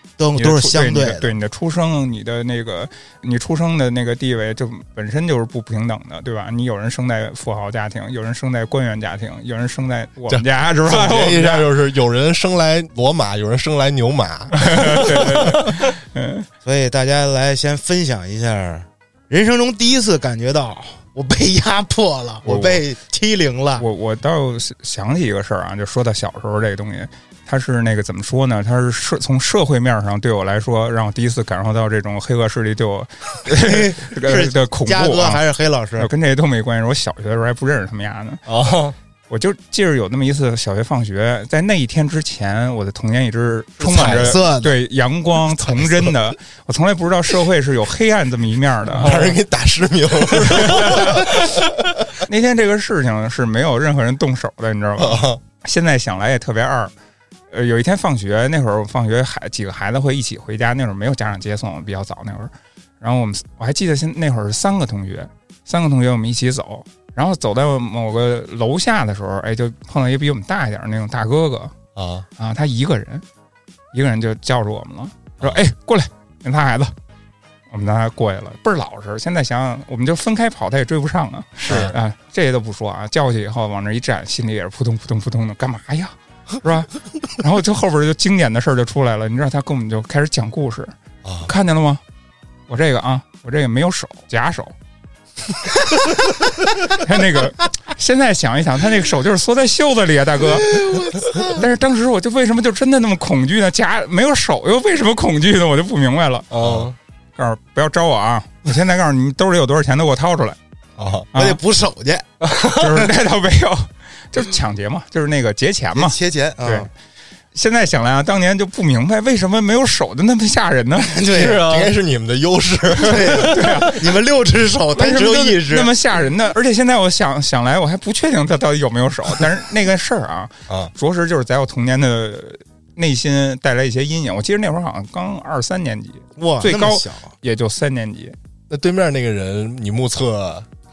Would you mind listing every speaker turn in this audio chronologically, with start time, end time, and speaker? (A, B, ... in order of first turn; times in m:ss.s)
0:00.2-0:01.3 A
0:00.4-0:11.7 B
0:10.3-0:15.7 C
0:14.5-0:16.5 B
0:16.6-0:23.9 A
0:22.4-0:22.8 B
0:23.8-0:35.4 B
0:33.5-0:36.1 A
0:36.0-0:38.4 B
0:38.4-0:38.9 D
0:39.3-0:49.4 B
0:43.8-0:44.4 C
0:43.9-0:44.8 A
0:48.9-0:51.7 C
0:50.5-0:51.3 B
0:52.2-0:56.9 B
0:55.0-0:55.4 C
0:57.5-1:11.7 B
1:11.9-1:12.3 C
1:12.4-1:13.2 B
1:13.9-1:16.9 B
1:17.7-1:30.9 B
1:21.6-1:22.0 C
1:31.2-1:31.5 C
1:31.4-1:32.0 B
1:32.7-1:34.7 B
1:36.8-1:46.5 B
1:40.7-1:41.6 A
1:46.5-1:46.9 D
1:46.6-1:46.9 C
1:47.4-1:50.6 B
1:51.0-1:51.3 C
1:51.3-1:51.6 B
1:51.3-1:52.3 A
1:52.4-1:52.8 D
1:52.7-1:56.9 B
1:56.0-1:56.9 A
1:57.5-2:01.2 B
2:01.0-2:01.6 A
2:01.3-2:01.9 D
2:01.4-2:03.5 C
2:03.0-2:05.9 A
2:03.2-2:04.0 B
2:04.9-2:18.3 B
2:16.4-2:17.3 A
2:18.7-2:20.6 C